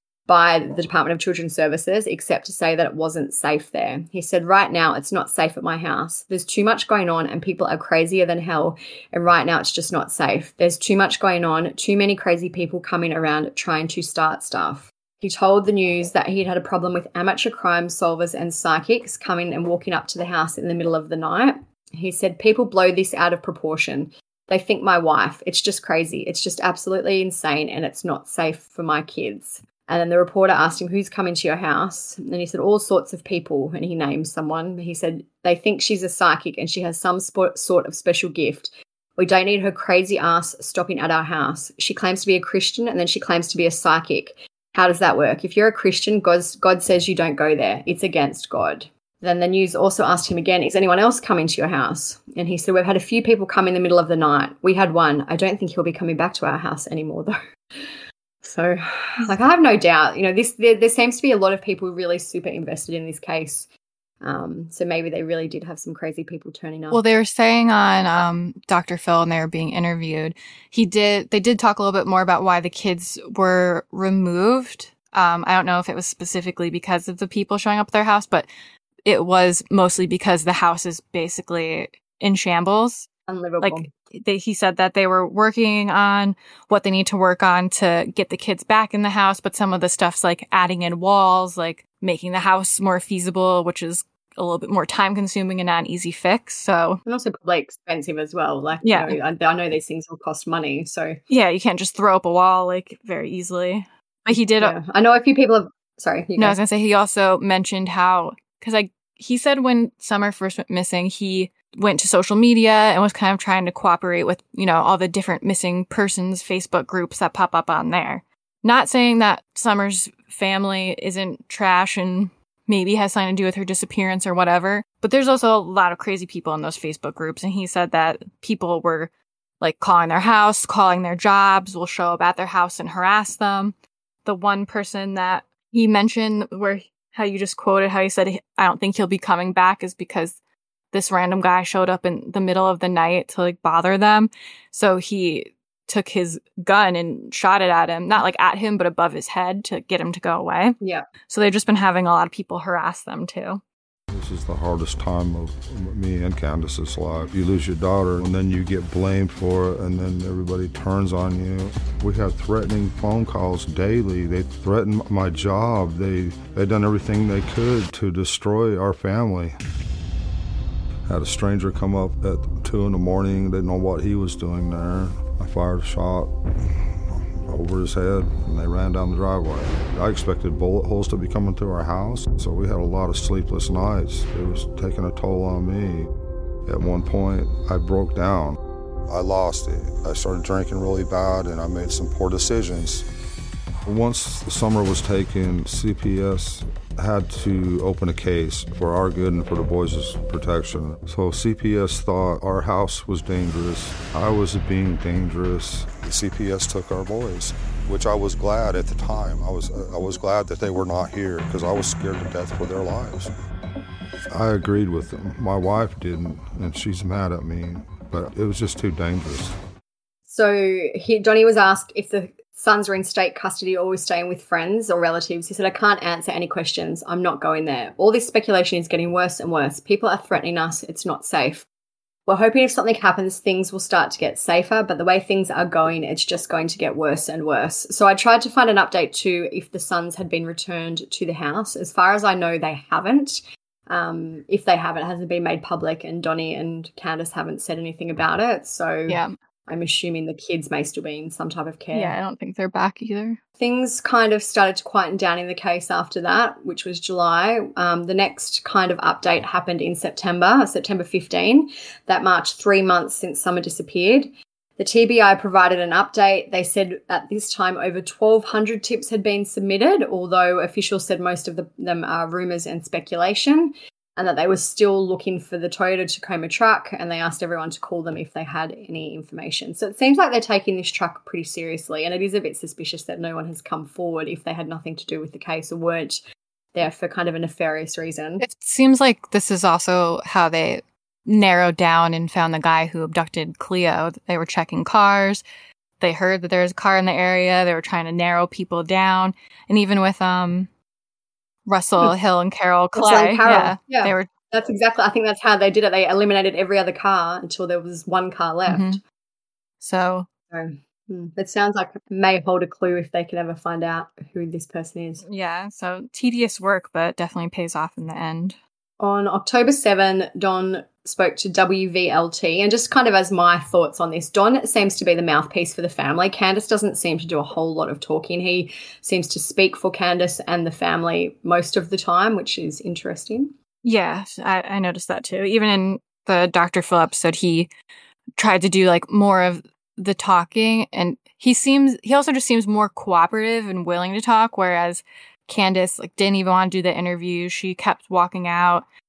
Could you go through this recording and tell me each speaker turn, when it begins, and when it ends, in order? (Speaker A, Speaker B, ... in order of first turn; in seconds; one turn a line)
Speaker A: 0.3-57.3
Speaker A: 58.4-63.7
Speaker A: 64.2-67.0
Speaker B: 66.9-78.5
Speaker B: 79.0-83.1
Speaker A: 83.3-83.9
Speaker B: 83.6-97.0
Speaker A: 97.0-101.2
Speaker B: 98.8-99.2
Speaker B: 101.3-104.7
Speaker A: 104.6-106.6
Speaker B: 106.4-133.7
Speaker B: 134.2-140.4
Speaker B: 140.9-153.6
Speaker A: 150.8-151.1
Speaker C: 154.1-169.6
Speaker C: 171.1-176.4
Speaker C: 177.4-186.1
Speaker C: 186.7-188.6
Speaker C: 189.1-193.1
Speaker C: 193.8-213.3
Speaker C: 214.3-219.5
Speaker A: 220.2-231.7
Speaker A: 232.3-252.2
Speaker B: 249.1-249.3
Speaker B: 251.9-253.4
Speaker A: 253.6-286.2
Speaker A: 286.7-288.4
Speaker B: 288.4-295.4
Speaker B: 296.0-300.7
Speaker B: 301.6-304.3
Speaker A: 302.9-309.0
Speaker B: 308.7-309.0
Speaker B: 309.8-310.3
Speaker A: 310.5-315.2
Speaker B: 315.2-318.6
Speaker A: 319.0-333.5
Speaker B: 333.8-337.7
Speaker B: 338.4-348.8